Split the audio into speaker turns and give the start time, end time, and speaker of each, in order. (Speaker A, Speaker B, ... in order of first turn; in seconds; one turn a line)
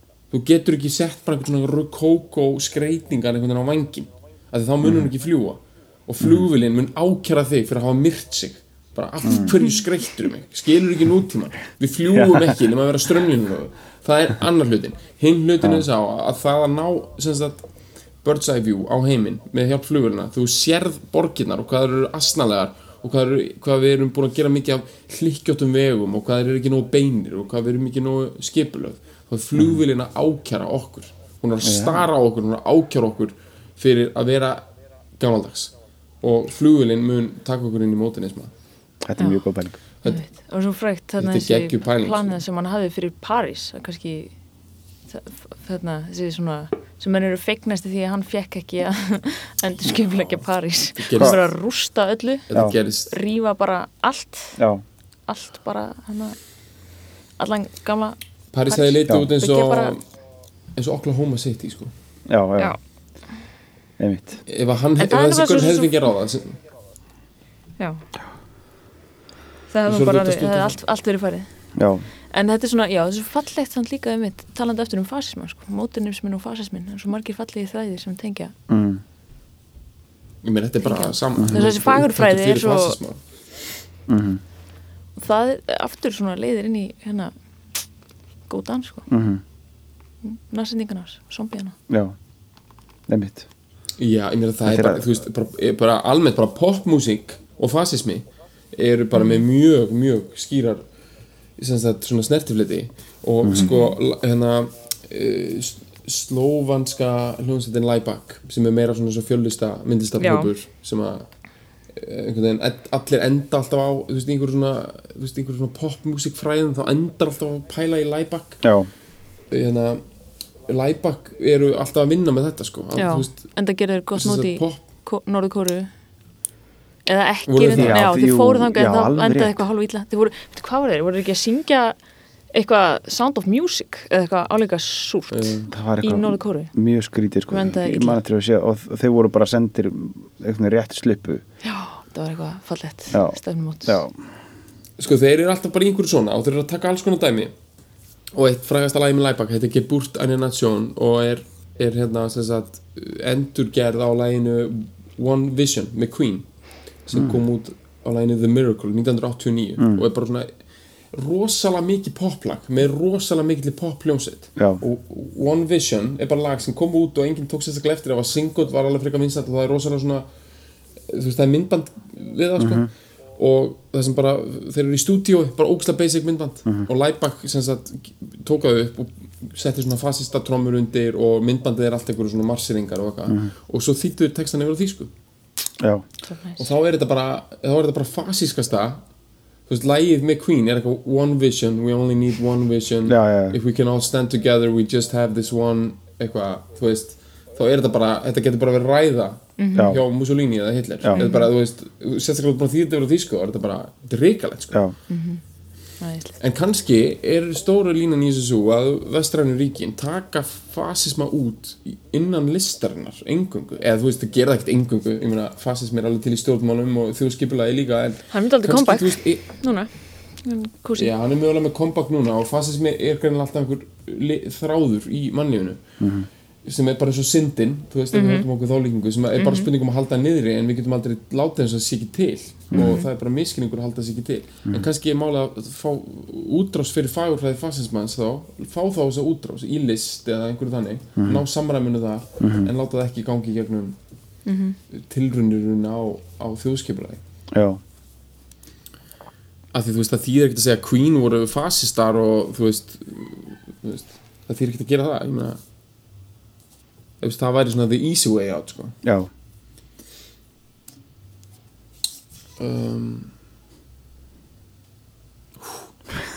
Speaker A: 0.3-17.6
Speaker B: 9.2-9.6
Speaker B: 12.2-12.5
Speaker A: 18.2-34.7
Speaker B: 31.6-32.1
Speaker A: 35.2-38.5
Speaker B: 39.0-39.8
Speaker C: 40.1-44.3
Speaker A: 41.2-42.4
Speaker C: 45.1-52.5
Speaker A: 51.0-51.5
Speaker A: 52.5-53.1
Speaker C: 53.1-54.6
Speaker B: 54.6-54.8
Speaker C: 55.3-56.4
Speaker C: 57.4-58.2
Speaker A: 58.5-60.0
Speaker C: 58.7-60.0
Speaker A: 60.8-61.9
Speaker B: 62.3-62.8
Speaker B: 64.0-64.4
Speaker A: 64.5-66.6
Speaker C: 65.0-66.0
Speaker C: 67.8-68.0
Speaker C: 69.7-71.5
Speaker A: 69.9-70.8
Speaker B: 71.8-72.0
Speaker C: 72.3-78.5
Speaker B: 78.7-79.0
Speaker A: 80.4-83.2
Speaker C: 80.8-83.0
Speaker B: 84.1-84.4
Speaker C: 85.2-87.3
Speaker C: 88.5-89.1
Speaker B: 89.1-89.4
Speaker C: 90.2-91.8
Speaker B: 91.9-92.2
Speaker B: 93.1-93.5
Speaker A: 94.0-100.8
Speaker B: 94.7-95.1
Speaker A: 101.6-111.3
Speaker B: 103.4-103.8
Speaker C: 103.6-103.9
Speaker C: 110.2-110.5
Speaker A: 111.9-118.6
Speaker B: 118.6-118.9
Speaker A: 119.5-120.0
Speaker A: 120.7-123.4
Speaker C: 123.0-125.9
Speaker A: 124.2-124.8
Speaker C: 127.1-132.0
Speaker A: 127.5-128.1
Speaker B: 127.7-129.6
Speaker C: 132.5-136.7
Speaker A: 135.3-135.7
Speaker B: 135.7-141.4
Speaker C: 137.5-138.2
Speaker C: 141.6-144.0
Speaker B: 143.1-144.2
Speaker A: 145.0-147.5
Speaker A: 148.4-156.5
Speaker A: 157.1-160.5
Speaker B: 159.8-160.0
Speaker A: 161.1-170.3
Speaker B: 164.6-164.8
Speaker A: 171.1-185.1
Speaker B: 172.6-172.9
Speaker C: 186.2-186.7
Speaker A: 186.6-189.0
Speaker A: 189.7-204.8
Speaker B: 193.1-193.6
Speaker C: 199.6-200.0
Speaker B: 199.8-200.0
Speaker C: 201.2-201.5
Speaker C: 205.1-205.4
Speaker C: 206.0-206.4
Speaker A: 206.4-219.5
Speaker C: 218.3-219.9
Speaker C: 220.4-221.1
Speaker A: 221.0-225.8
Speaker B: 226.0-226.3
Speaker A: 226.7-244.0
Speaker C: 228.1-228.5
Speaker C: 229.4-229.7
Speaker B: 232.7-233.0
Speaker C: 232.8-233.1
Speaker B: 241.2-241.4
Speaker B: 242.4-242.7
Speaker C: 244.5-244.8
Speaker A: 244.9-247.2
Speaker B: 247.5-247.8
Speaker A: 249.7-255.6
Speaker A: 257.2-259.0
Speaker B: 259.0-259.3
Speaker A: 262.6-263.3